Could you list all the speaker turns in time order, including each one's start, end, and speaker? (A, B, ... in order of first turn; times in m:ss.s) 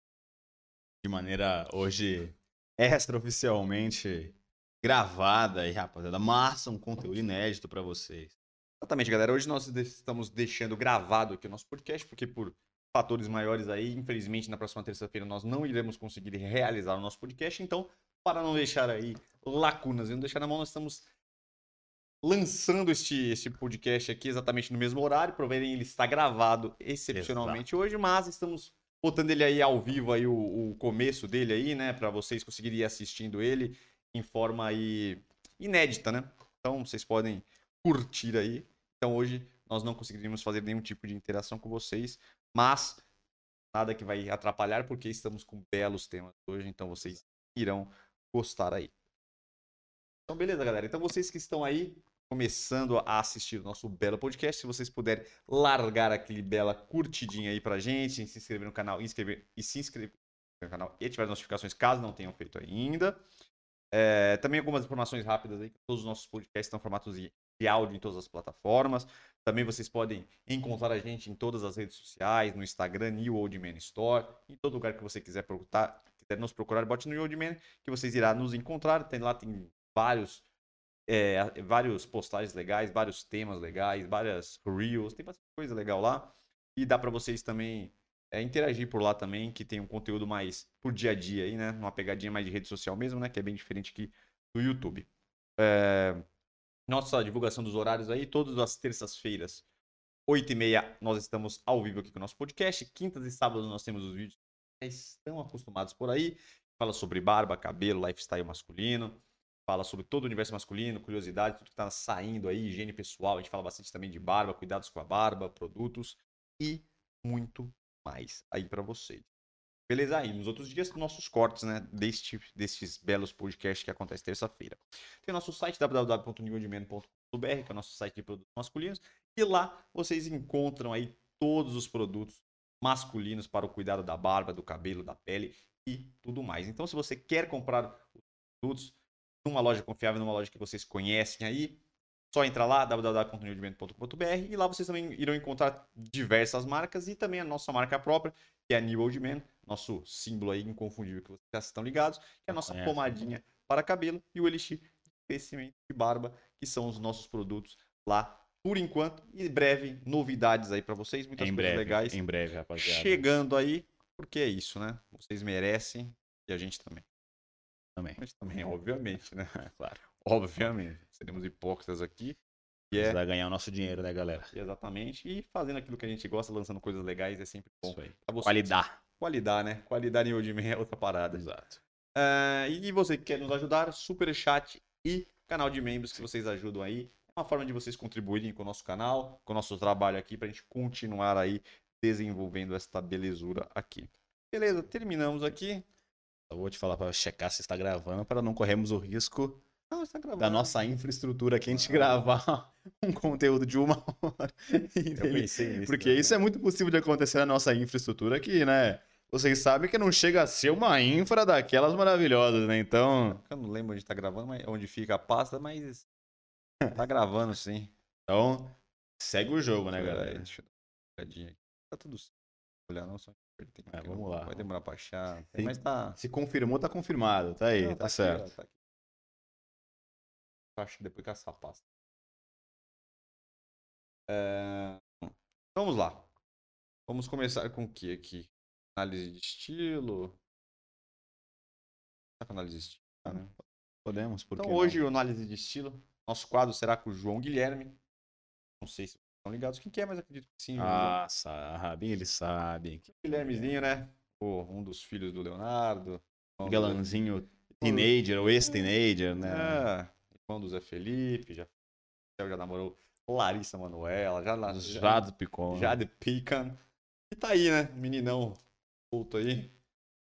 0:01.0-0:08.4 A
0:08.8-0:21.1 B
0:22.2-0:43.0 B
0:27.1-0:27.6 A
0:43.7-0:48.9 B
0:50.3-1:03.2 B
1:03.9-1:20.4 B
1:21.1-1:36.3 B
1:36.9-1:39.6 B
1:40.3-1:59.3 B
1:59.9-2:21.8 B
2:22.3-2:42.2 B
2:32.5-2:33.0 A
2:41.4-2:43.2 A
2:42.8-2:47.1 B
2:48.2-2:52.4 B
2:49.6-2:50.0 A
2:52.9-2:53.2 B
2:52.9-2:54.5 A
2:54.5-3:01.5 B
2:57.9-2:59.0 A
3:01.3-3:01.8 A
3:02.2-3:15.8 B
3:16.5-3:19.6 A
3:19.9-3:20.8 B
3:20.4-3:33.4 A
3:21.7-3:22.2 B
3:25.2-3:26.4 B
3:33.3-3:36.1 B
3:36.9-3:37.9 B
3:38.3-3:40.5 A
3:40.0-3:42.3 B
3:42.9-3:46.2 B
3:43.9-3:44.6 A
3:45.6-3:48.4 A
3:47.8-3:48.8 B
3:50.8-3:51.8 B
3:54.3-3:56.3 B
3:57.1-4:00.4 B
4:02.4-4:03.5 B
4:04.0-4:05.0 A
4:04.6-4:08.0 B
4:08.8-4:11.2 B
4:10.8-4:13.7 A
4:13.1-4:17.0 B
4:16.6-4:19.9 A
4:17.7-4:18.1 B
4:19.4-4:21.7 B
4:22.4-4:26.8 B
4:24.7-4:26.0 A
4:27.3-4:29.7 B